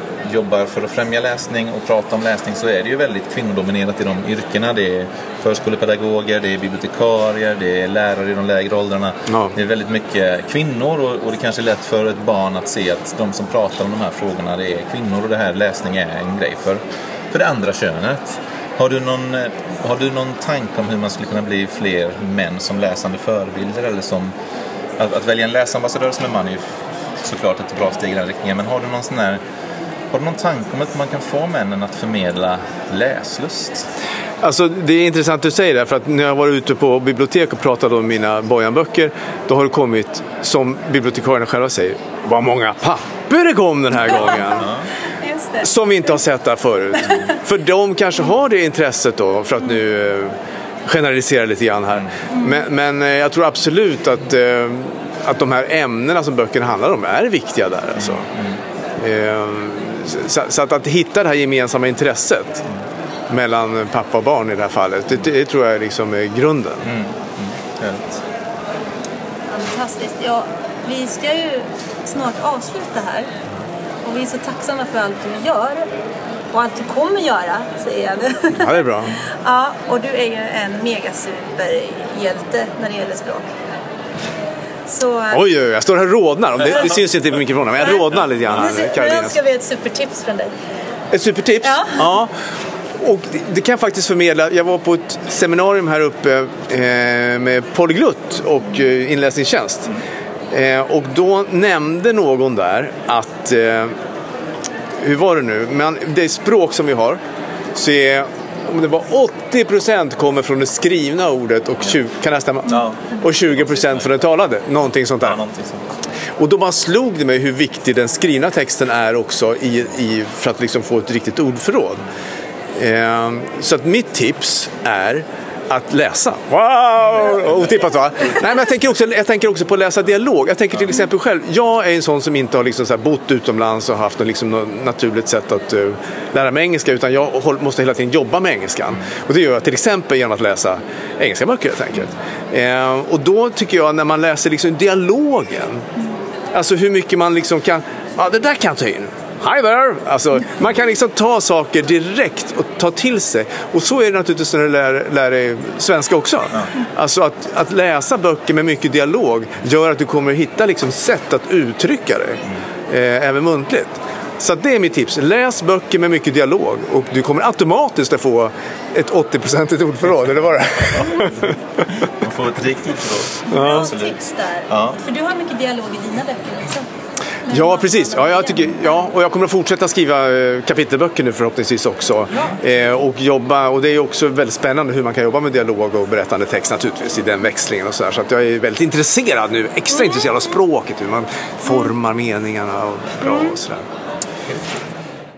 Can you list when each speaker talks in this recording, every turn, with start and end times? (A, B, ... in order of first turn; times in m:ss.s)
0:00.2-0:24.3 A
0:09.3-0:09.5 B
0:25.0-0:29.4 A
0:30.1-0:33.9 A
0:34.4-0:44.7 B
0:44.1-0:44.6 C
0:44.5-0:44.9 A
0:45.2-0:45.7 C
0:45.6-0:58.2 B
0:52.3-0:52.7 C
0:58.0-0:58.6 A
0:59.0-1:02.6 B
1:03.3-1:06.9 B
1:06.8-1:08.2 A
1:09.5-1:13.3 C
1:14.0-1:15.9 C
1:16.5-1:23.5 C
1:18.5-1:19.2 B
1:24.9-1:25.4 C
1:25.3-1:29.4 B
1:26.6-1:27.0 C
1:27.8-1:30.5 C
1:31.1-1:32.3 B
1:31.6-1:32.1 C
1:33.0-1:39.9 B
1:40.5-1:43.9 B
1:45.0-1:47.2 B
1:47.7-1:55.4 B
1:52.7-1:54.2 A
1:55.2-1:55.8 A
1:56.4-2:02.0 B
2:02.8-2:25.8 B
2:26.5-2:51.9 B
2:51.0-2:51.4 A
2:52.0-2:55.0 A
2:53.4-2:56.9 C
2:53.5-2:53.9 B
2:57.5-2:59.1 C
2:57.5-3:13.8 B
3:02.3-3:02.6 C
3:09.9-3:10.4 C
3:13.2-3:13.6 C